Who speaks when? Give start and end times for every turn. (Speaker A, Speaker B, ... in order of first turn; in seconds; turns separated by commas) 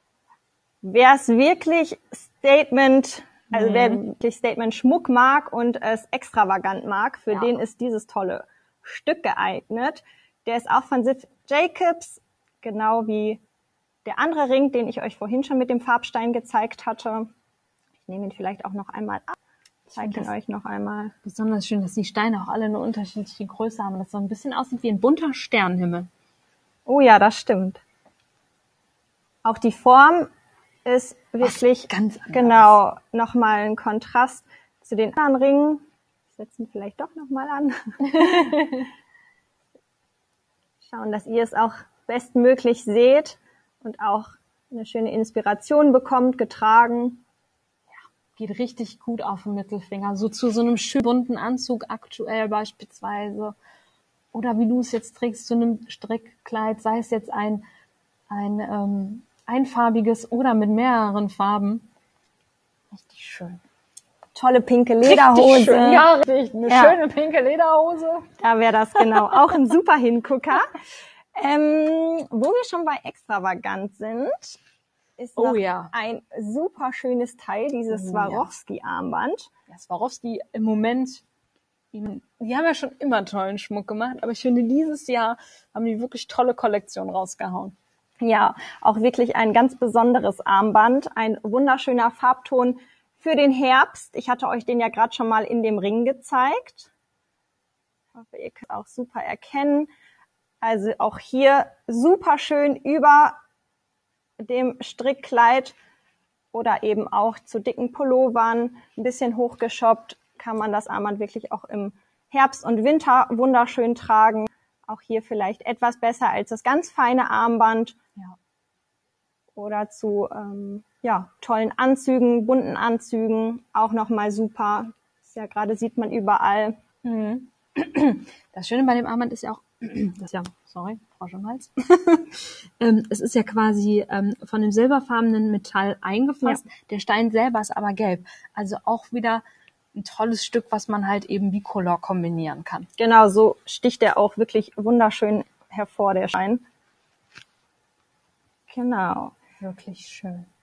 Speaker A: 0.8-13.4, Speaker B: 3.5-4.0, Speaker A: 14.1-17.3, Speaker A: 18.1-19.4, Speaker B: 19.9-20.3, Speaker A: 19.9-21.1, Speaker B: 21.2-26.1, Speaker A: 26.9-27.8, Speaker A: 29.4-30.3, Speaker A: 30.9-38.8, Speaker B: 31.4-32.8, Speaker B: 38.1-38.9, Speaker A: 40.8-47.2, Speaker B: 47.9-53.5, Speaker B: 54.3-57.6, Speaker B: 58.3-61.9, Speaker B: 62.9-63.6, Speaker A: 64.3-66.1, Speaker B: 65.0-68.3, Speaker A: 66.7-67.0, Speaker A: 68.4-70.8, Speaker A: 71.3-74.6, Speaker A: 75.2-79.5, Speaker B: 75.4-75.9, Speaker B: 77.9-78.5, Speaker B: 79.7-81.2, Speaker B: 81.9-87.8, Speaker A: 88.2-96.9, Speaker A: 98.1-99.9, Speaker A: 100.6-103.4, Speaker A: 104.4-105.8, Speaker A: 106.5-118.0, Speaker A: 119.5-126.8, Speaker B: 127.0-139.4, Speaker B: 139.9-142.9, Speaker A: 143.0-146.6, Speaker A: 148.7-149.3, Speaker B: 149.6-150.5